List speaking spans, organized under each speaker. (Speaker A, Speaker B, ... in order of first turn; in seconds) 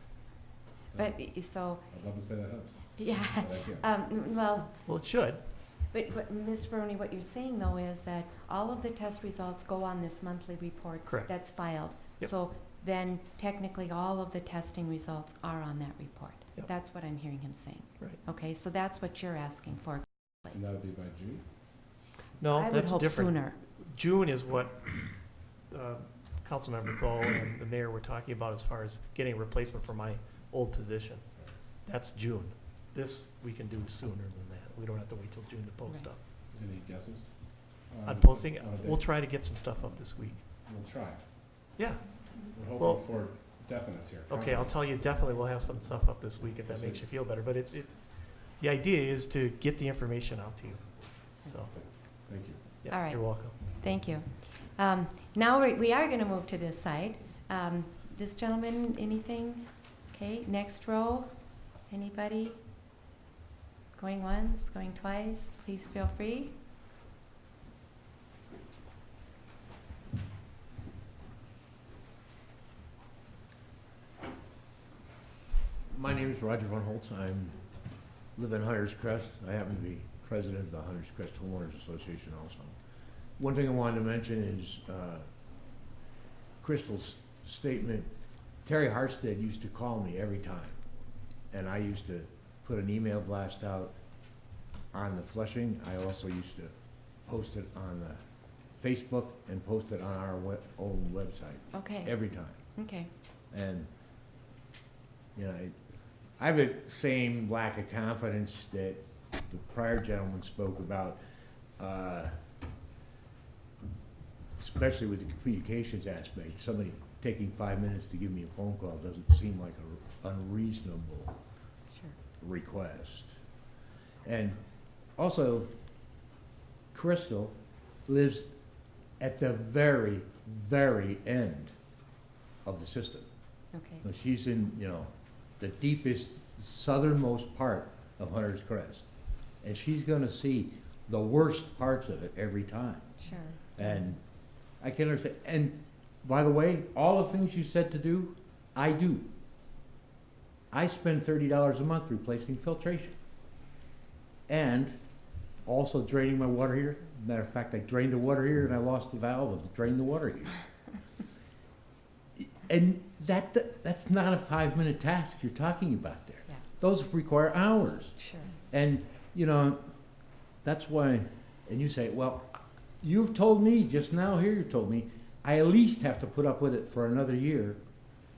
Speaker A: 0.9-3.9, 20.5-21.4, 36.5-41.6, 42.5-44.8, 46.7-47.1, 51.7-52.7
Speaker B: 0.9-1.9, 3.0-4.9, 5.8-20.6, 22.5-23.6, 52.9-62.6, 64.0-66.6, 101.7-103.1, 121.9-122.2, 133.7-134.0, 143.2-144.0, 168.2-168.5
Speaker C: 4.8-5.4, 11.1-12.3, 22.4-36.2, 38.0-40.5, 41.8-43.0, 44.3-51.7, 52.8-53.6
Speaker D: 75.9-77.6, 78.4-82.8, 83.4-85.3, 86.6-90.8, 91.5-94.0, 94.9-96.7, 97.3-98.2, 98.8-102.6, 103.5-103.9, 105.4-105.7, 106.4-111.2, 111.8-112.3, 114.6-121.4, 122.4-123.4, 124.2-124.6, 125.2-125.7, 126.9-128.5, 129.2-131.7, 132.6-133.3, 134.0-139.1, 139.6-143.2, 143.8-144.2, 144.8-149.3, 150.7-153.2, 154.5-155.0, 155.6-160.6, 162.4-169.9, 170.6-177.8